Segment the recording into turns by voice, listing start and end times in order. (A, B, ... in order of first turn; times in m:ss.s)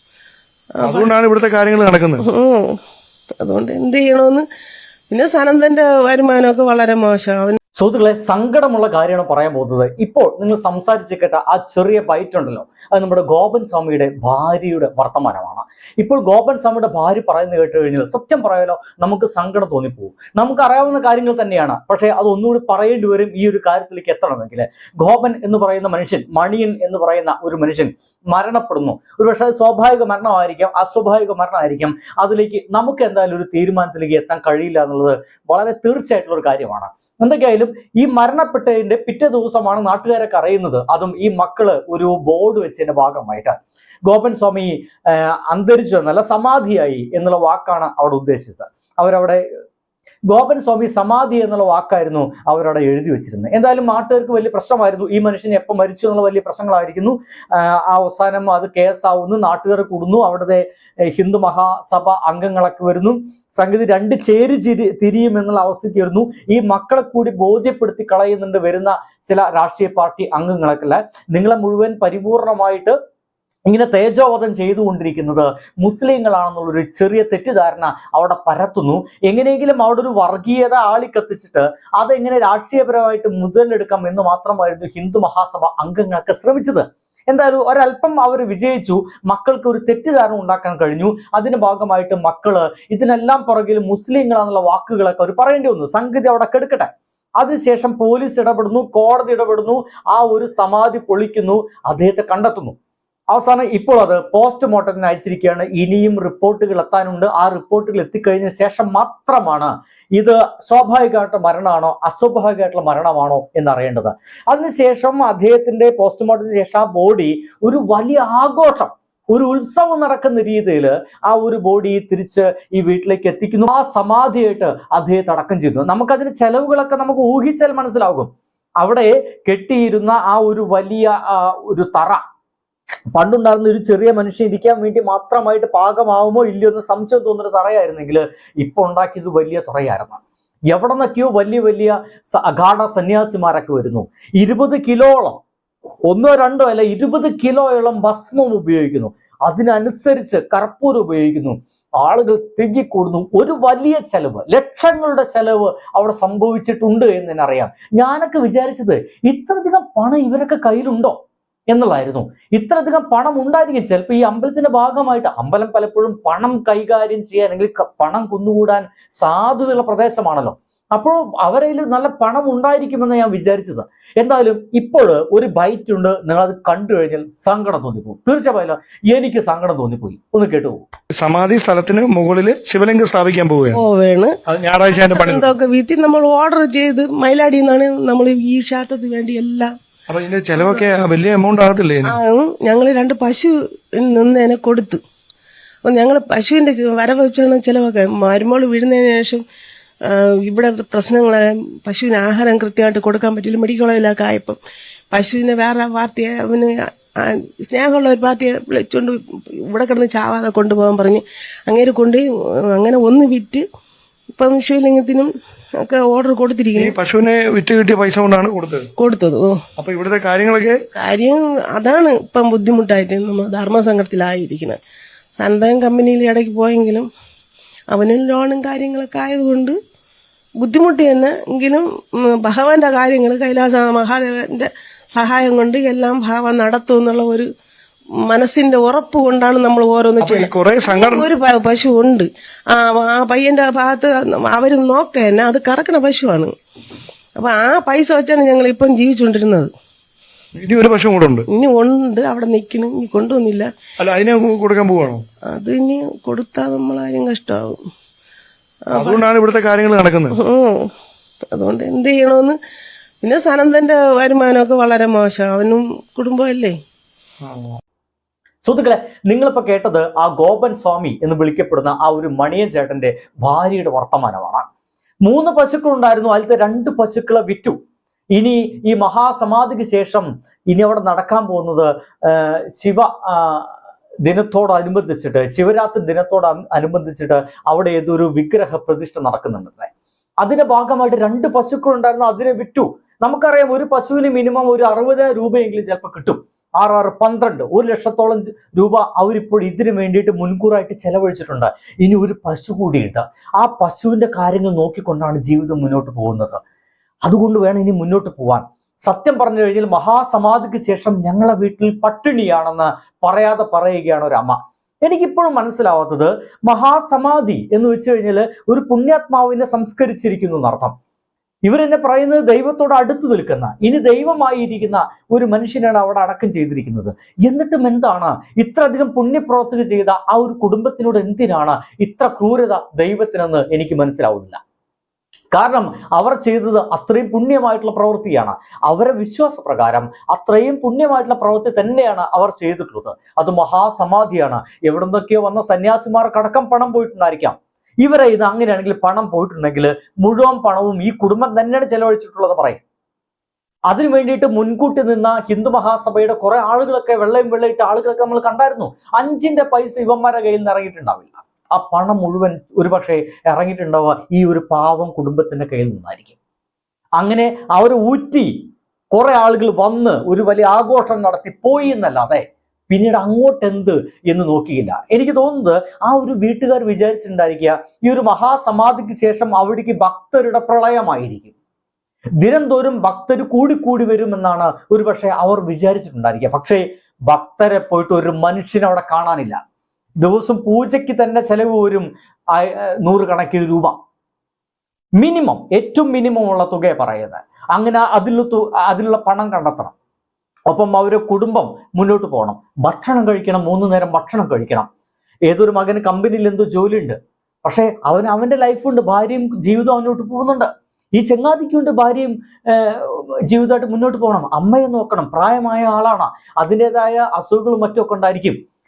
0:00.8-0:01.1 A
0:00.8-0:02.2 B
0:02.3-0:02.8 A
0:03.4-0:04.4 A
0:05.1-0:07.6 A
0:07.8-0:43.6 C
0:44.1-0:49.4 C
0:50.3-1:12.9 C
1:13.7-1:42.8 C
1:43.3-2:12.2 C
2:13.1-2:25.4 C
2:26.1-2:41.2 C
2:41.7-3:00.8 C
3:01.2-3:03.8 B
3:03.7-3:04.3 A
3:04.5-3:05.5 B
3:05.0-3:09.7 A
3:10.1-3:12.2 B
3:12.1-3:15.0 A
3:15.9-3:19.4 A
3:20.1-3:24.6 A
3:25.1-3:33.6 A
3:34.3-3:36.9 A
3:36.8-3:38.9 B
3:39.0-3:39.6 A
3:39.8-3:40.8 B
3:41.0-3:44.8 A
3:45.4-3:47.1 A
3:47.9-3:49.8 A
3:50.6-3:57.5 A
3:58.3-4:06.5 A
4:00.2-4:01.3 B
4:07.4-4:09.7 A
4:10.6-4:11.5 B
4:11.5-4:13.7 A
4:14.0-4:15.2 B
4:15.5-4:17.8 A
4:18.9-4:19.2 A
4:19.0-4:20.4 B
4:20.4-4:20.9 A
4:21.5-4:22.6 A
4:23.2-4:26.8 A
4:27.4-4:27.8 B
4:28.6-4:34.6 C
4:35.3-4:37.8 C
4:38.4-4:43.7 C
4:44.3-4:49.9 C
4:50.4-5:06.6 C
5:07.2-5:20.9 C
5:21.7-5:34.6 C
5:35.5-5:52.8 C
5:53.9-6:06.4 C
6:07.2-6:08.5 C
6:09.1-6:21.5 C
6:22.4-6:29.6 C
6:30.2-6:34.0 C
6:35.2-6:39.9 C
6:40.7-6:44.9 C
6:45.5-6:58.6 C